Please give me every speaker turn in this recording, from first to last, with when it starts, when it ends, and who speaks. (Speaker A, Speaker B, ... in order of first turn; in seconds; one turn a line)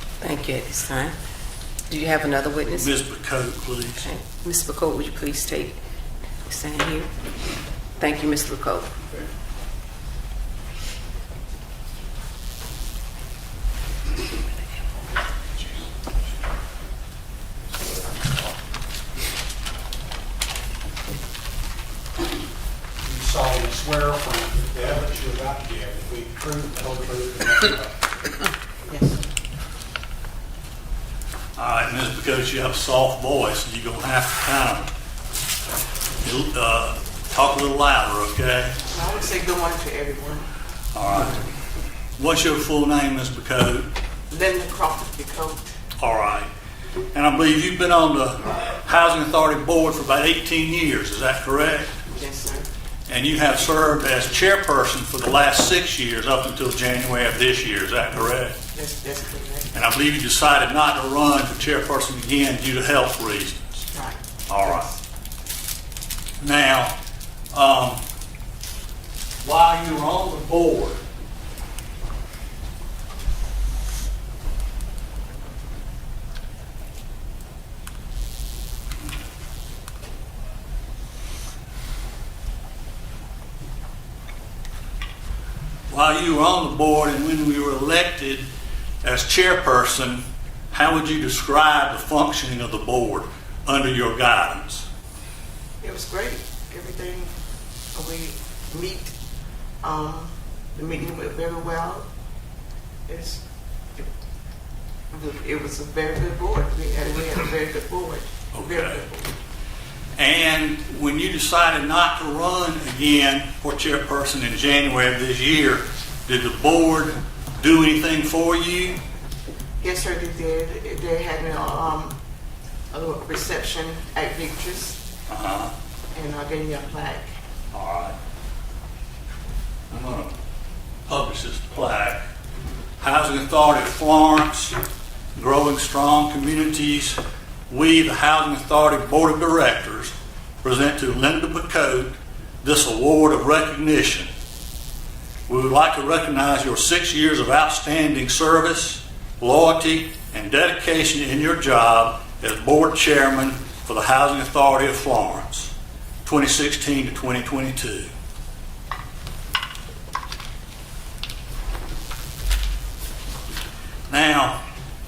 Speaker A: 0.2-1.1
Speaker A: 1.9-2.9
Speaker B: 2.7-4.0
Speaker A: 4.0-5.8
Speaker A: 6.5-7.1
Speaker A: 8.0-9.0
Speaker C: 23.0-28.1
Speaker D: 28.9-29.2
Speaker B: 31.6-34.9
Speaker B: 36.2-38.7
Speaker D: 38.9-40.5
Speaker B: 40.9-41.5
Speaker B: 42.2-43.9
Speaker D: 44.3-45.7
Speaker B: 46.0-46.5
Speaker B: 47.1-51.9
Speaker D: 52.1-52.7
Speaker B: 53.1-58.5
Speaker D: 58.7-59.7
Speaker B: 59.7-63.9
Speaker D: 63.9-65.0
Speaker B: 64.5-64.9
Speaker B: 66.4-66.9
Speaker B: 67.5-68.0
Speaker B: 69.4-71.0
Speaker B: 85.9-88.5
Speaker B: 89.0-94.9
Speaker D: 95.8-97.3
Speaker D: 97.9-99.1
Speaker D: 99.8-102.1
Speaker D: 103.1-103.4
Speaker D: 105.1-109.3
Speaker B: 108.5-109.0
Speaker B: 110.2-119.0
Speaker D: 119.8-122.2
Speaker D: 122.9-125.0
Speaker B: 125.3-125.7
Speaker D: 126.1-127.3
Speaker B: 127.7-128.2
Speaker B: 129.9-130.3
Speaker B: 131.1-132.2
Speaker B: 133.0-134.8
Speaker B: 135.3-144.3
Speaker B: 145.5-155.7
Speaker B: 156.2-158.1
Speaker B: 164.1-164.6